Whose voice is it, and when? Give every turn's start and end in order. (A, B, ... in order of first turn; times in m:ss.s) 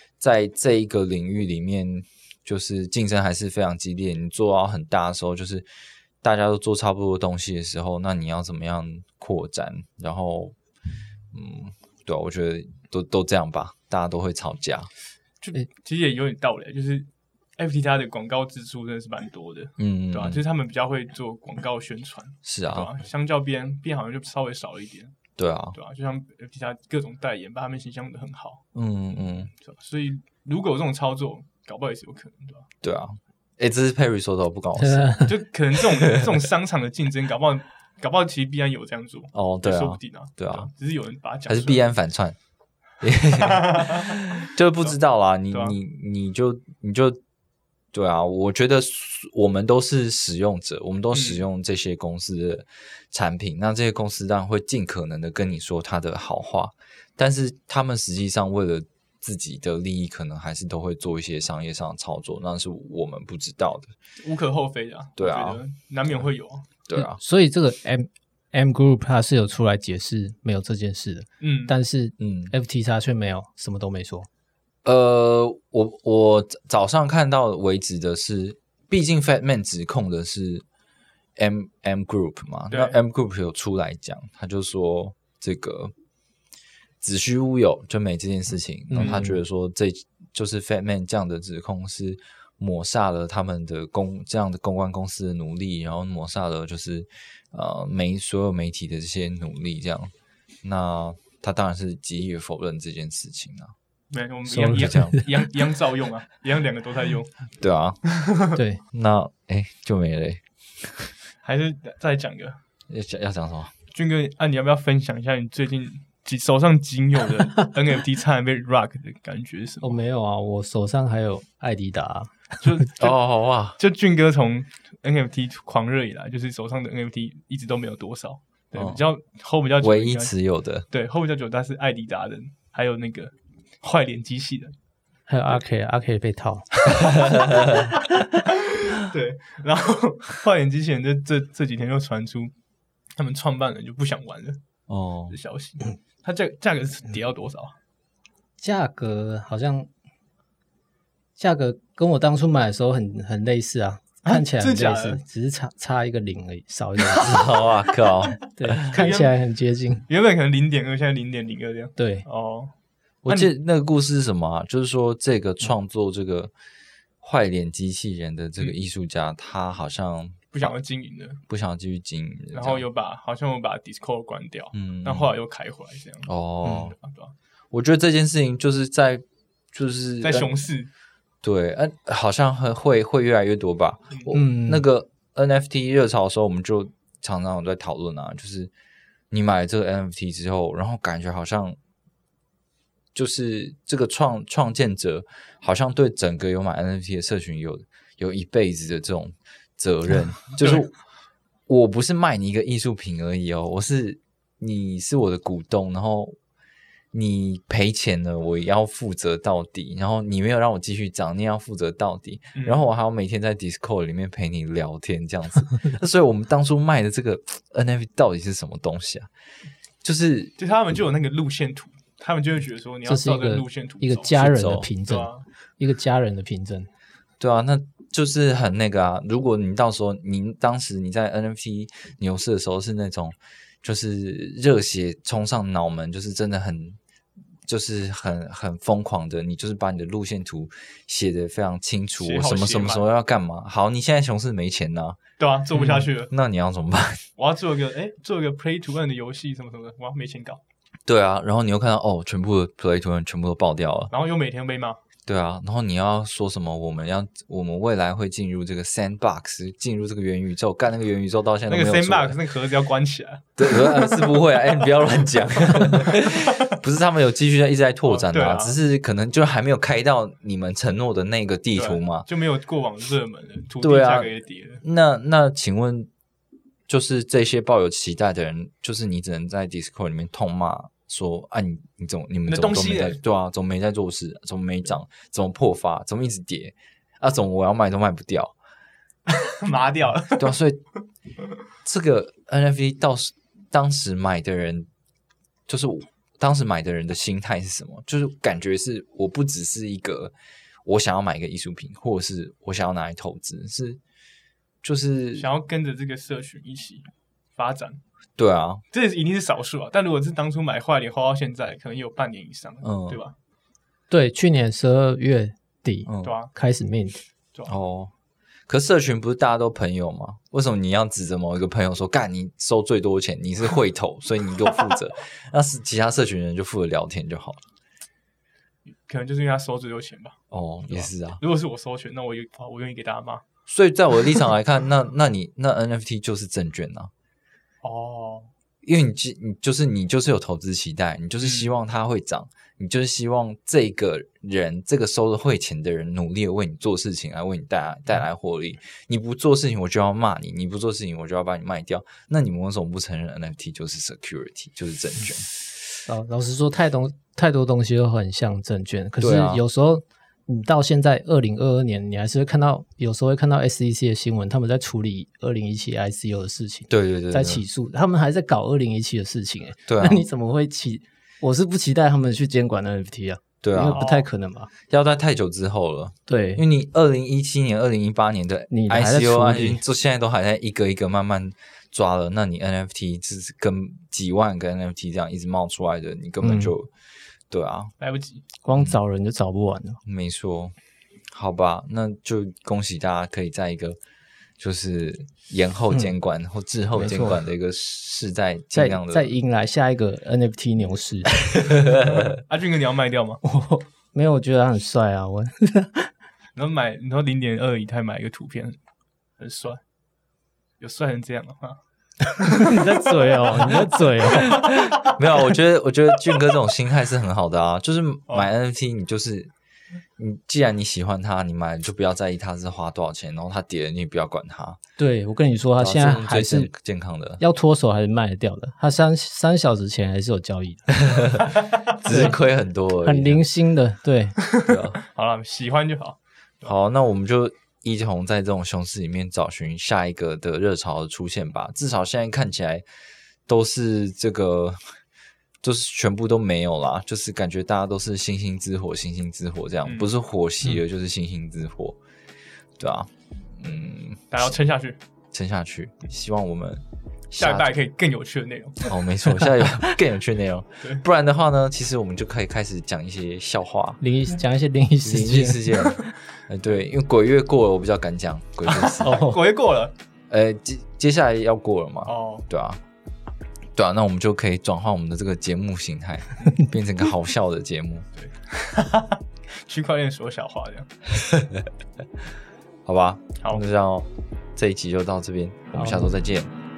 0:00.2-0:05.6 A
0:06.2-0:10.5 A
0:11.3-0:14.9 A
0:15.4-0:25.2 B
0:19.8-0:20.4 A
0:22.4-0:22.9 A
0:25.4-0:25.8 A
0:25.7-0:28.6 B
0:28.7-0:29.5 A
0:29.6-0:32.7 B
0:32.8-0:36.3 A
0:34.8-0:35.3 C
0:35.2-0:41.8 B
0:39.3-0:40.7 A
0:41.5-0:42.4 A
0:43.0-0:47.2 A
0:43.4-0:44.9 B
0:45.5-0:45.8 B
0:47.9-1:03.9 A
0:51.1-0:51.4 B
1:04.2-1:06.6 B
1:05.2-1:05.6 A
1:06.9-1:07.2 A
1:06.9-1:14.3 C
1:11.4-1:11.7 B
1:12.2-1:12.5 A
1:14.8-1:20.6 A
1:21.4-1:25.9 A
1:22.7-1:23.0 B
1:27.0-1:40.1 A
1:28.9-1:29.4 C
1:29.0-1:29.3 B
1:40.6-1:43.7 A
1:44.1-1:47.3 B
1:44.5-1:45.3 C
1:44.7-1:45.2 A
1:47.6-1:48.0 A
1:48.1-1:48.5 B
1:48.5-1:48.8 C
1:48.9-1:51.1 A
1:51.4-1:52.6 B
1:52.9-1:53.7 A
1:53.9-2:00.0 B
1:59.8-2:02.8 C
2:02.6-2:03.2 B
2:03.0-2:03.8 A
2:03.8-2:10.3 B
2:08.7-2:09.0 A
2:09.8-2:10.9 A
2:10.9-2:14.7 B
2:15.3-2:16.7 C
2:17.0-2:17.9 A
2:17.4-2:22.5 B
2:23.2-2:24.6 B
2:24.9-2:25.4 A
2:25.3-2:27.8 B
2:28.6-2:29.9 C
2:31.4-2:37.6 C
2:34.2-2:35.2 B
2:37.2-2:39.0 A
2:38.5-2:40.0 C
2:38.8-2:39.3 B
2:40.1-2:42.7 B
2:42.0-2:42.2 C
2:43.2-2:46.5 A
2:43.2-2:43.5 B
2:47.2-2:50.5 A
2:50.5-2:51.4 B
2:51.5-2:52.8 A
2:52.5-2:57.3 B
2:54.7-2:55.3 A
2:56.2-2:57.0 A
2:57.7-3:00.5 A
3:00.2-3:00.9 B
3:01.4-3:08.7 A
3:04.3-3:04.8 C
3:09.3-3:11.8 A
3:13.1-3:20.9 A
3:20.6-3:20.9 B
3:21.7-3:26.4 A
3:27.1-3:39.3 A
3:32.5-3:32.8 B
3:40.0-3:40.5 A
3:40.6-3:45.4 B
3:43.0-3:46.9 C
3:44.3-3:44.9 A
3:47.4-3:57.0 A
3:57.6-4:05.2 A
4:02.2-4:03.0 B
4:05.4-4:06.3 B
4:05.8-4:07.2 A
4:07.4-4:10.6 B
4:11.0-4:14.1 A
4:14.1-4:15.0 B
4:15.3-4:22.4 A
4:21.7-4:24.6 B
4:23.6-4:32.3 A
4:25.7-4:26.7 B
4:28.0-4:28.8 B
4:31.7-4:34.8 B
4:33.8-4:36.1 A
4:36.9-4:48.5 A
4:42.5-4:43.2 B
4:49.3-4:50.6 B
4:50.4-4:50.8 A
4:51.8-4:54.9 A
4:55.7-5:00.3 A
5:00.8-5:04.0 A
5:04.8-5:05.5 A
5:05.4-5:08.0 B
5:08.4-5:08.8 A
5:08.9-5:13.3 B
5:12.8-5:13.2 A
5:14.1-5:17.2 C
5:16.0-5:16.4 A
5:16.2-5:16.5 B
5:17.6-5:18.1 A
5:18.7-5:27.6 A
5:28.9-5:33.4 B
5:30.5-5:31.4 A
5:33.7-5:37.1 A
5:37.8-5:38.5 B
5:38.8-5:55.5 A
5:41.4-5:41.7 B
5:56.1-6:14.7 C
5:59.2-5:59.6 A
6:06.9-6:07.6 A
6:09.9-6:10.2 A
6:13.6-6:14.0 A
6:13.9-6:14.3 B
6:14.9-6:26.9 A
6:16.3-6:16.6 C
6:18.7-6:19.8 C
6:26.4-6:26.7 C
6:27.5-6:27.9 A
6:28.0-6:28.4 B
6:28.6-6:30.0 C
6:30.0-6:30.7 A
6:31.3-6:34.0 A
6:34.6-6:39.3 A
6:36.9-6:37.4 C
6:38.7-6:41.3 C
6:41.5-6:42.3 A
6:42.2-6:43.4 B
6:43.4-6:46.1 C
6:46.6-6:48.8 B
6:49.4-6:49.8 B
6:50.8-6:51.8 B
6:52.3-6:53.4 B
6:52.4-6:54.6 C
6:54.2-6:59.5 A
6:54.5-6:54.9 B
7:00.2-7:04.8 A
7:05.0-7:06.7 C
7:05.8-7:07.4 A
7:07.4-7:11.3 C
7:10.9-7:13.5 A
7:12.1-7:12.4 C
7:13.0-7:14.4 C
7:14.4-7:16.6 B
7:14.6-7:15.0 A
7:16.6-7:22.8 A
7:23.5-7:24.9 A
7:25.6-7:32.0 A
7:29.8-7:30.1 B
7:32.8-7:34.5 A
7:34.3-7:35.0 B
7:35.3-7:37.7 A
7:37.4-7:38.9 B
7:38.9-7:44.0 A
7:44.0-7:45.7 C
7:45.0-7:49.4 A
7:48.6-7:49.9 B
7:50.3-7:52.8 A
7:52.0-7:52.4 B
7:53.8-7:58.0 A
7:58.2-8:00.9 B
8:01.1-8:01.7 A
8:02.8-8:06.5 A
8:05.7-8:06.1 C